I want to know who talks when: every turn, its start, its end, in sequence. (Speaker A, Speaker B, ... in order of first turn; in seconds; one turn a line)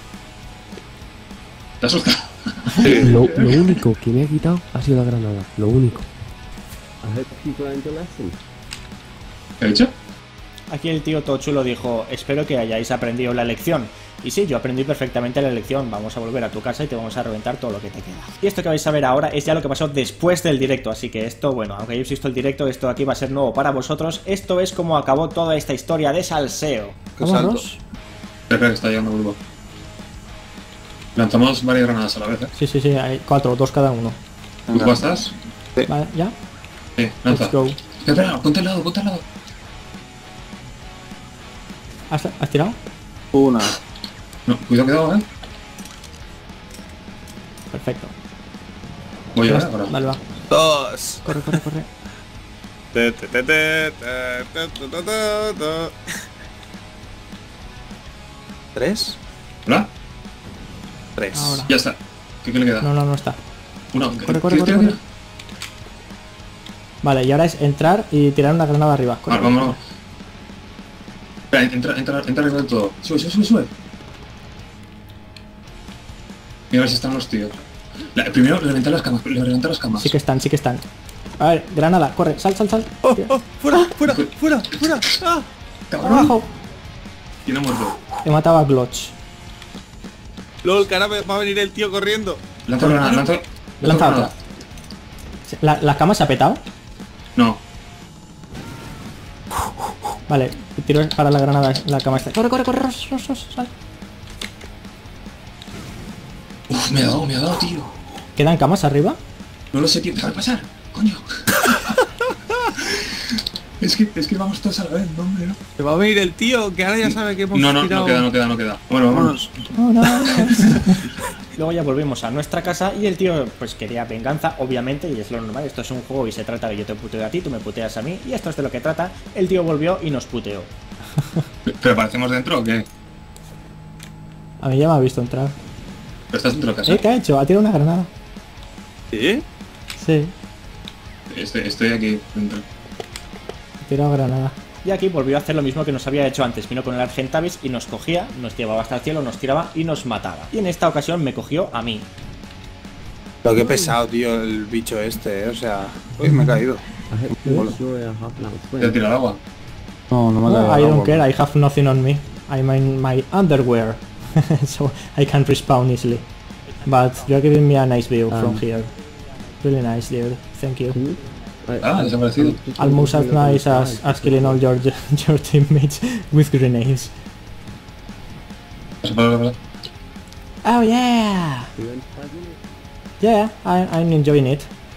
Speaker A: 1.8-3.8
Speaker B: 2.8-3.1
Speaker C: 3.0-6.1
Speaker C: 7.0-8.3
Speaker A: 9.6-9.9
Speaker B: 10.7-27.8
Speaker D: 27.2-27.6
Speaker A: 28.5-29.4
Speaker A: 31.1-32.5
Speaker B: 32.6-34.2
Speaker D: 34.7-35.0
Speaker A: 34.7-35.3
Speaker B: 35.9-36.3
Speaker A: 37.0-39.2
Speaker B: 37.3-37.8
Speaker B: 42.1-42.8
Speaker D: 43.3-43.8
Speaker A: 44.5-45.2
Speaker B: 47.7-48.1
Speaker A: 49.3-49.9
Speaker B: 49.4-50.2
Speaker D: 50.5-51.2
Speaker B: 51.2-51.9
Speaker D: 52.9-56.1
Speaker D: 58.8-59.2
Speaker D: 61.1-61.6
Speaker B: 61.3-61.7
Speaker A: 61.6-62.9
Speaker B: 62.8-63.4
Speaker A: 63.9-65.0
Speaker B: 64.1-65.0
Speaker B: 67.0-69.8
Speaker A: 69.3-69.8
Speaker A: 71.5-73.7
Speaker A: 76.7-77.6
Speaker A: 78.1-80.1
Speaker B: 80.0-80.8
Speaker B: 81.4-83.3
Speaker D: 83.0-85.5
Speaker A: 85.9-86.3
Speaker B: 86.0-86.5
Speaker A: 87.4-88.0
Speaker B: 88.2-89.1
Speaker D: 90.6-92.4
Speaker A: 92.7-94.3
Speaker B: 92.8-93.2
Speaker B: 93.8-94.3
Speaker B: 95.5-96.6
Speaker A: 97.4-97.6
Speaker B: 100.3-103.7
Speaker A: 106.7-107.9
Speaker B: 108.4-109.2
Speaker A: 109.7-111.9
Speaker A: 112.6-115.6
Speaker D: 115.8-118.3
Speaker A: 117.5-119.5
Speaker D: 119.1-119.5
Speaker B: 119.7-130.7
Speaker A: 120.2-120.6
Speaker A: 131.7-132.9
Speaker B: 134.6-135.6
Speaker A: 136.3-137.0
Speaker B: 136.9-138.1
Speaker D: 139.1-139.4
Speaker B: 140.0-140.3
Speaker A: 141.3-142.6
Speaker B: 143.8-152.1
Speaker D: 153.4-157.8
Speaker C: 157.1-158.9
Speaker A: 158.8-159.4
Speaker D: 160.1-161.2
Speaker B: 160.4-166.2
Speaker B: 166.8-168.9
Speaker C: 168.3-168.6
Speaker B: 169.6-171.0
Speaker C: 171.1-174.6
Speaker A: 171.8-172.6
Speaker B: 172.8-177.1
Speaker A: 179.0-179.6
Speaker B: 180.6-181.7
Speaker C: 181.8-182.6
Speaker B: 183.2-184.7